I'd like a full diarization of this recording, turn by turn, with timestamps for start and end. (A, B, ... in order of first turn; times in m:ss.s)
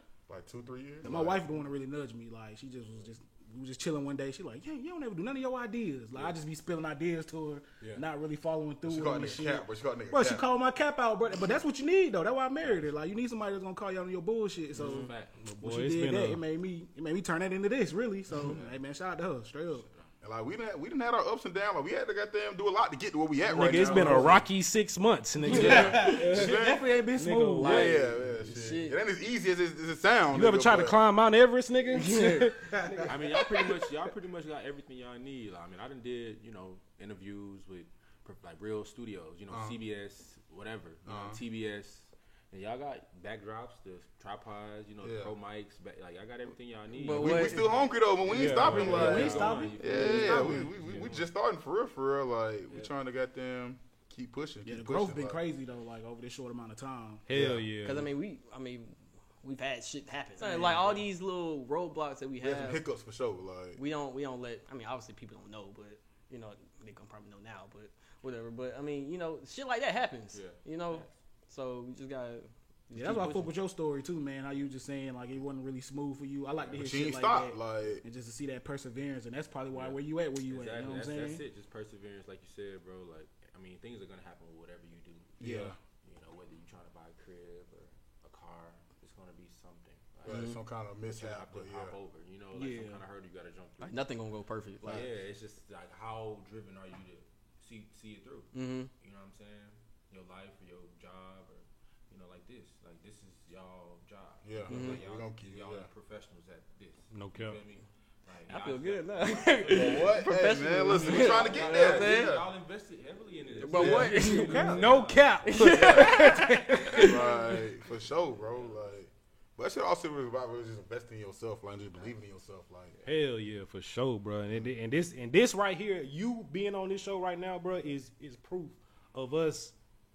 0:00.3-0:01.4 A
0:01.0-0:19.9 B
0:06.1-0:06.4 C
0:08.8-0:10.4 A
0:12.6-0:12.9 C
0:14.7-0:15.4 C
0:14.8-0:15.1 D
0:15.4-0:16.4 E
0:18.4-0:18.8 C
0:19.7-0:20.1 C
0:20.2-0:24.4 A
0:23.5-0:28.1 E
0:23.6-0:24.4 B
0:25.4-0:28.0 B
0:25.5-0:25.9 D
0:25.5-0:26.9 A
0:27.6-0:29.0 D
0:27.6-0:31.0 A
0:30.3-0:33.1 E
0:31.9-0:32.6 D
0:32.8-0:33.1 B
0:33.0-0:51.2 C
0:39.5-0:39.8 A
0:41.1-0:41.4 A
0:45.0-0:45.3 A
0:47.0-0:47.7 D
0:47.1-0:55.4 A
0:48.3-0:51.1 E
0:48.6-0:50.7 B
0:54.6-0:57.2 B
0:57.3-0:58.1 E
0:57.3-0:57.6 A
0:57.8-1:02.8 D
1:00.4-1:00.9 B
1:00.7-1:01.0 C
1:02.4-1:03.8 A
1:03.8-1:13.5 D
1:10.3-1:11.1 C
1:12.9-1:21.4 B
1:16.7-1:18.0 A
1:19.7-1:25.4 C
1:25.4-1:25.8 A
1:25.4-1:25.7 B
1:26.0-1:30.5 C
1:30.2-1:32.0 A
1:30.3-1:30.6 D
1:31.0-1:34.1 C
1:32.5-1:33.0 B
1:33.8-1:35.1 D
1:34.8-1:50.3 C
1:38.5-1:38.9 D
1:44.4-1:45.9 A
1:44.7-1:45.0 D
1:47.1-1:47.6 E
1:48.5-1:52.4 D
1:49.7-1:52.5 A
1:50.9-1:55.5 C
1:53.6-1:54.9 D
1:53.7-1:54.8 A
1:53.8-1:57.1 E
1:55.4-1:57.6 D
1:55.7-1:56.4 A
1:56.9-1:58.9 C
1:56.9-2:03.0 A
2:03.1-2:09.8 E